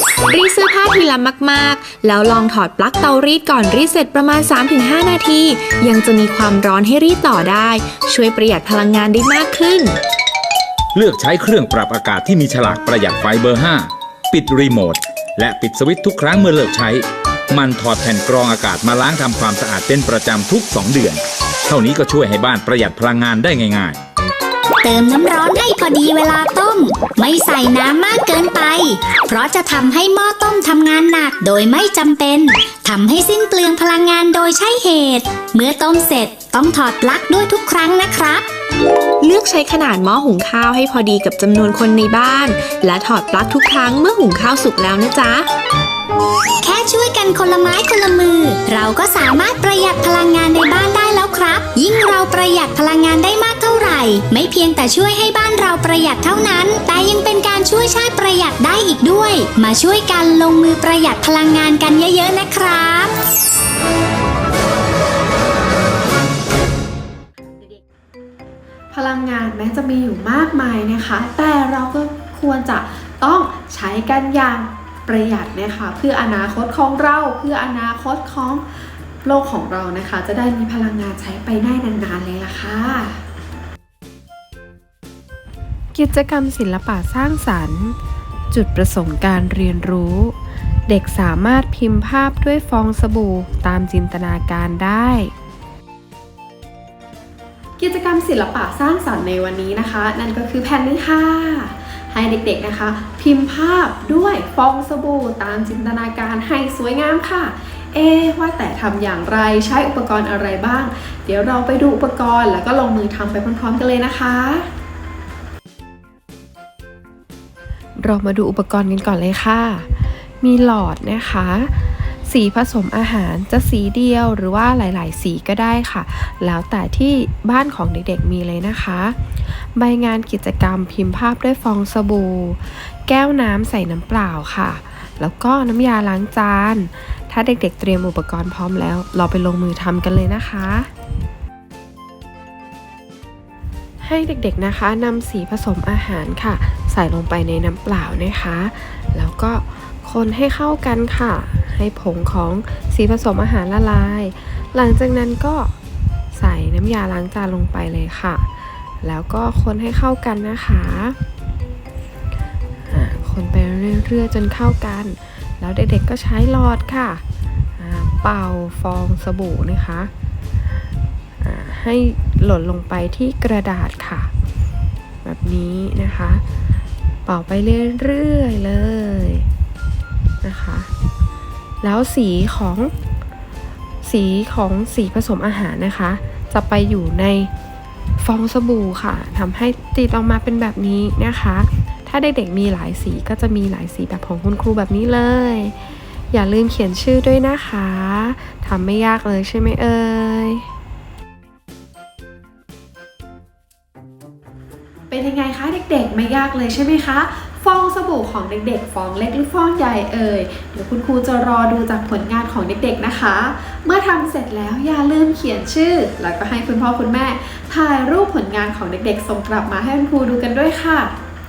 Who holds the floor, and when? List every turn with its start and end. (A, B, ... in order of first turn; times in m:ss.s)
0:00.3-0:10.0 A
0:11.0-0:24.0 B
0:24.8-0:38.4 C
0:39.2-0:45.5 A
0:46.6-1:03.1 C
1:08.9-1:23.2 D
1:25.9-1:28.0 E
1:28.5-1:30.3 E
1:30.9-1:35.3 E
1:37.8-1:54.7 D
1:58.0-2:20.9 E
2:24.0-2:35.7 E
2:36.3-2:38.4 E
2:39.0-2:41.2 E
2:42.9-2:47.2 E
2:47.8-2:50.1 E
2:51.4-2:54.3 E
2:55.2-2:56.4 E
2:57.3-2:59.5 E
3:00.4-3:00.9 E
3:01.8-3:02.9 E
3:04.0-3:07.5 E
3:08.2-3:15.8 E
3:16.3-3:20.7 E
3:25.1-3:41.1 D